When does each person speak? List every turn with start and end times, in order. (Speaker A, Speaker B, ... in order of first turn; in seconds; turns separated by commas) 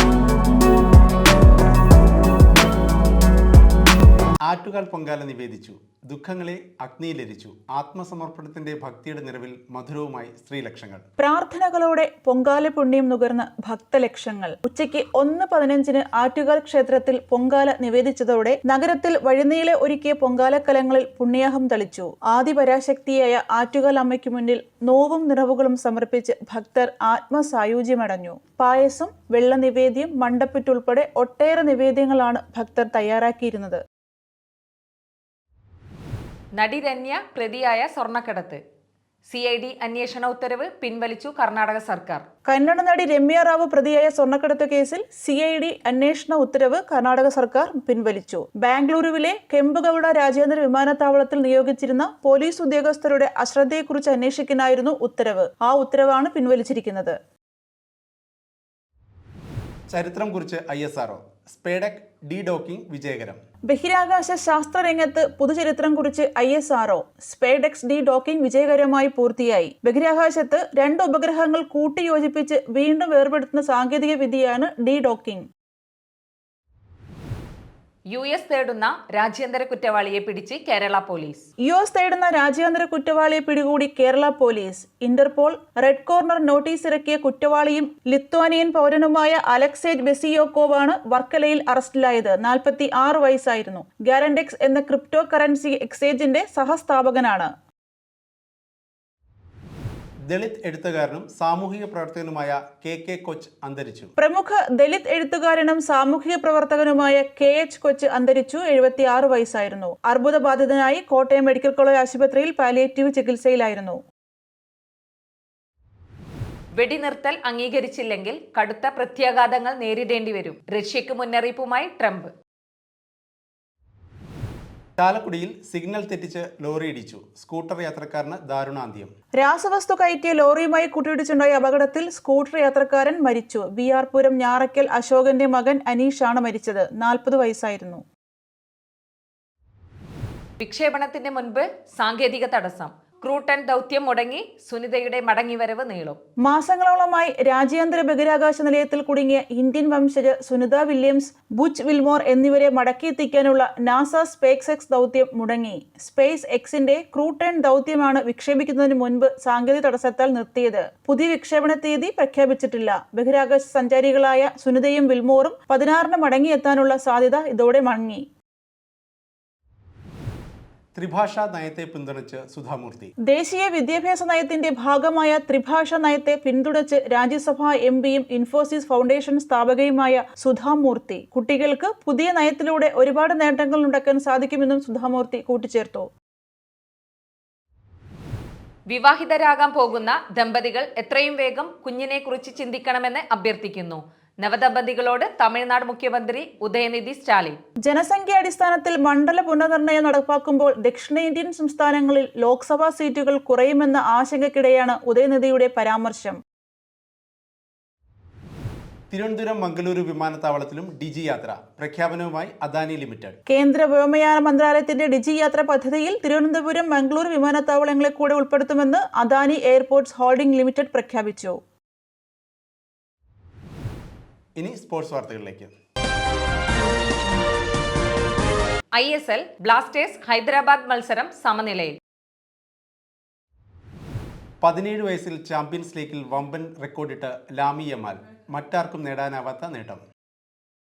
Speaker A: 4.5-11.0, Speaker B: 11.2-33.8, Speaker C: 36.5-38.6, Speaker C: 39.3-42.2, Speaker B: 42.5-57.2, Speaker A: 59.9-63.4, Speaker B: 63.7-75.5, Speaker C: 78.1-81.4, Speaker B: 81.7-97.5, Speaker A: 100.3-104.1, Speaker B: 104.2-114.0, Speaker C: 116.7-122.3, Speaker A: 125.0-129.1, Speaker B: 129.4-138.0, Speaker C: 140.6-146.2, Speaker B: 146.4-168.2, Speaker A: 170.9-173.1, Speaker B: 173.2-186.1, Speaker C: 188.9-197.6, Speaker B: 197.9-206.4, Speaker A: 209.1-213.4, Speaker B: 213.5-221.6, Speaker A: 224.6-225.7, Speaker C: 228.9-232.0, Speaker A: 234.6-240.0